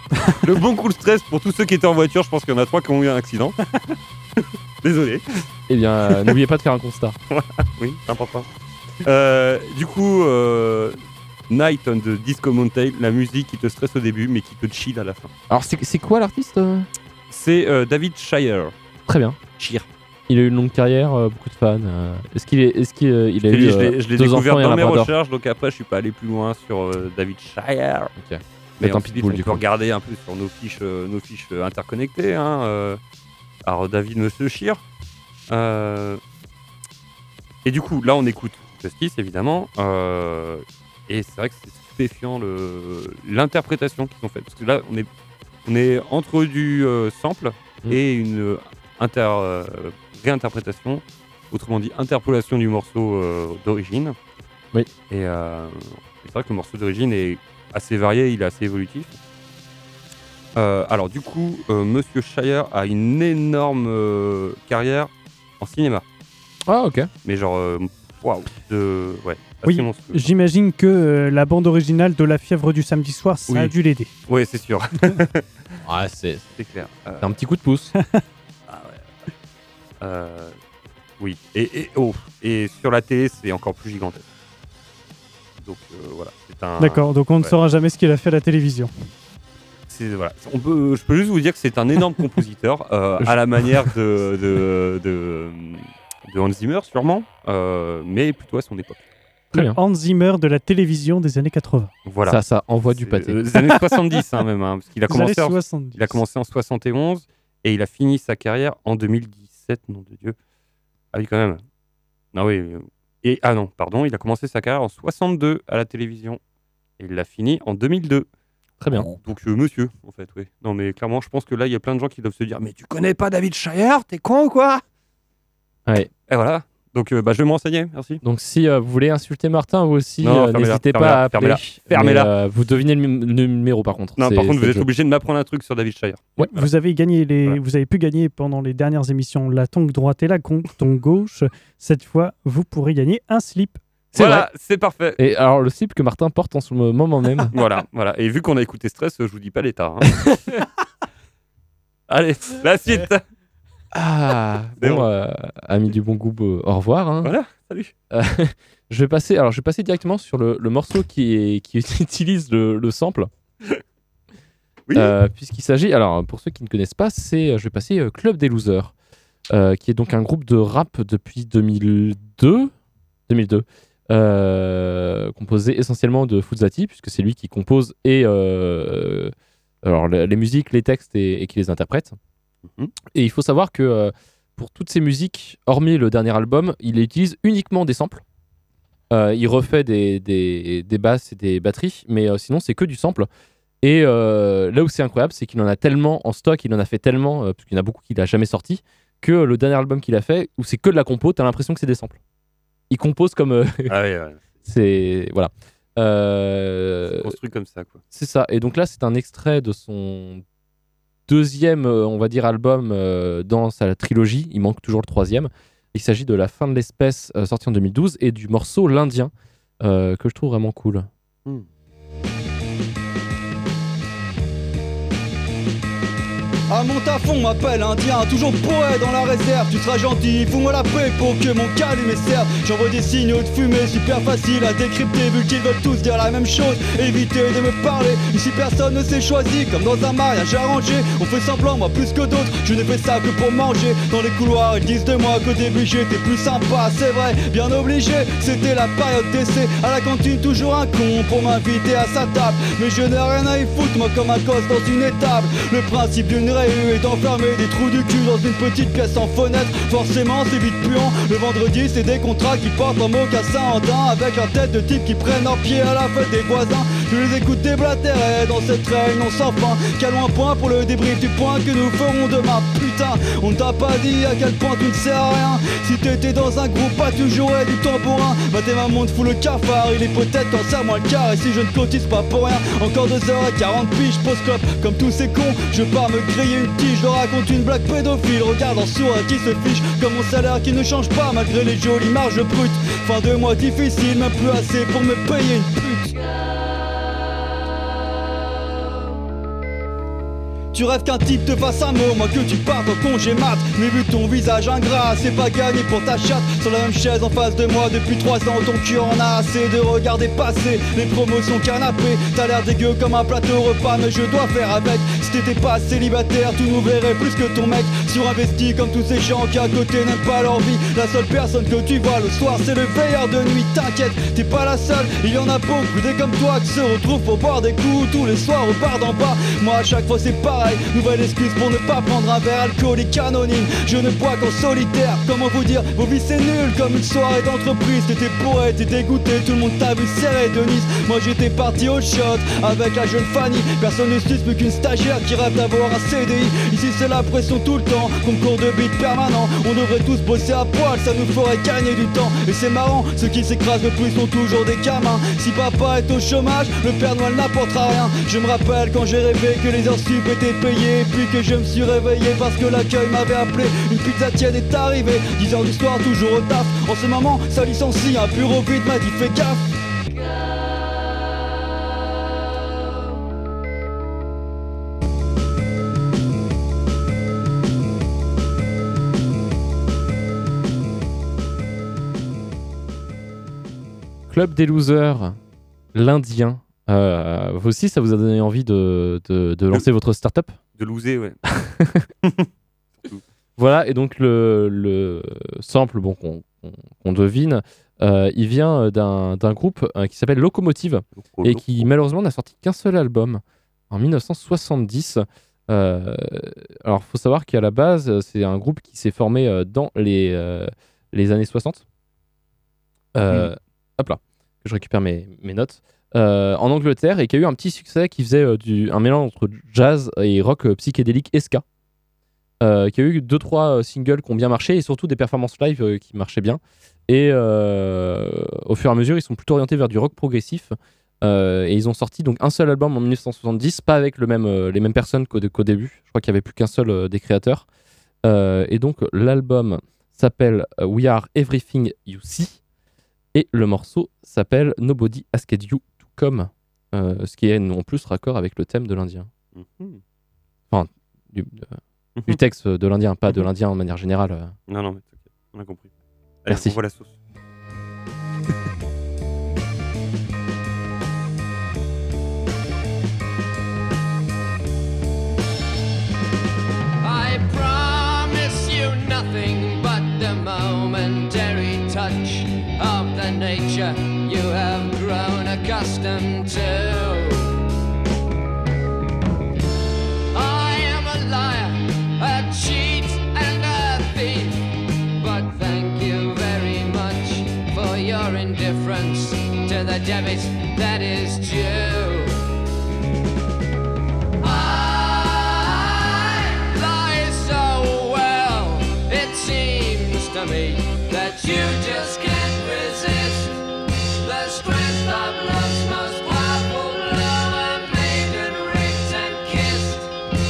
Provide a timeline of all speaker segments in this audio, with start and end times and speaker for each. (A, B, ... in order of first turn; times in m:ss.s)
0:00.3-0:03.6 A
0:04.8-0:05.2 A
0:05.7-0:07.2 B
0:06.1-0:06.3 A
0:07.3-0:08.5 A
0:09.0-0:15.3 A
0:15.5-0:16.9 B
0:17.3-0:18.7 A
0:19.1-0:19.6 B
0:20.3-0:25.1 B
0:23.4-0:28.1 A
0:28.2-0:29.6 B
0:28.8-0:33.0 A
0:33.7-0:34.8 A
0:35.5-0:36.2 A
0:37.6-0:45.1 A
0:45.6-0:54.2 A
0:55.1-0:59.2 A
1:00.6-1:06.0 A
1:06.7-1:07.1 B
1:07.2-1:10.3 A
1:09.6-1:14.1 C
1:14.3-1:15.4 A
1:15.8-1:16.6 B
1:16.6-1:17.3 A
1:17.2-1:17.9 B
1:18.7-1:19.0 A
1:20.0-1:20.6 A
1:21.2-1:24.2 A
1:25.6-1:27.5 A
1:26.8-1:28.9 C
1:29.9-1:39.0 A
1:33.2-1:33.9 B
1:39.5-1:41.9 C
1:42.1-1:50.4 A
1:42.3-1:43.4 B
1:45.1-1:46.2 C
1:51.1-1:51.6 A
1:52.3-1:56.4 A
1:57.0-1:58.3 A
1:58.8-1:59.1 B
1:58.9-2:04.8 A
2:06.3-2:08.2 A
2:08.2-2:14.9 B
2:10.2-2:12.3 A
2:14.2-2:16.6 A
2:16.4-2:23.8 C
2:24.1-2:25.2 A
2:24.1-2:24.5 B
2:25.2-2:27.5 B
2:27.5-2:30.2 A
2:32.1-2:33.2 A
2:33.9-2:37.4 B
2:34.8-2:35.1 A
2:37.2-2:37.9 A
2:38.1-2:43.3 B
2:44.9-2:45.2 A
2:44.9-2:48.9 B
2:49.5-2:52.7 B
2:53.3-2:59.3 B
2:59.8-3:02.2 B
3:03.1-3:08.2 B
3:09.1-3:13.3 B
3:13.8-3:22.2 B
3:22.9-3:23.9 B
3:23.9-3:24.4 A
3:24.6-3:27.4 B
3:27.2-3:28.0 A
3:28.1-3:30.4 B
3:31.3-3:41.1 B
3:46.7-4:56.4 D
5:00.7-6:09.6 D
6:24.3-6:25.4 B
6:25.9-6:30.6 B
6:30.8-6:31.4 A
6:31.6-6:32.1 B
6:33.6-6:51.8 B
6:41.2-6:41.9 A
6:53.2-7:01.6 B
7:02.6-7:17.7 B
7:18.2-7:22.6 B
7:23.3-7:29.3 B
7:29.6-7:30.0 A
7:30.7-7:34.5 B
7:34.7-7:35.9 A
7:36.4-7:37.1 A
7:36.5-7:36.8 B
7:47.0-7:57.5 E
8:00.3-8:12.4 E
8:14.4-8:23.7 E
8:24.2-8:30.1 E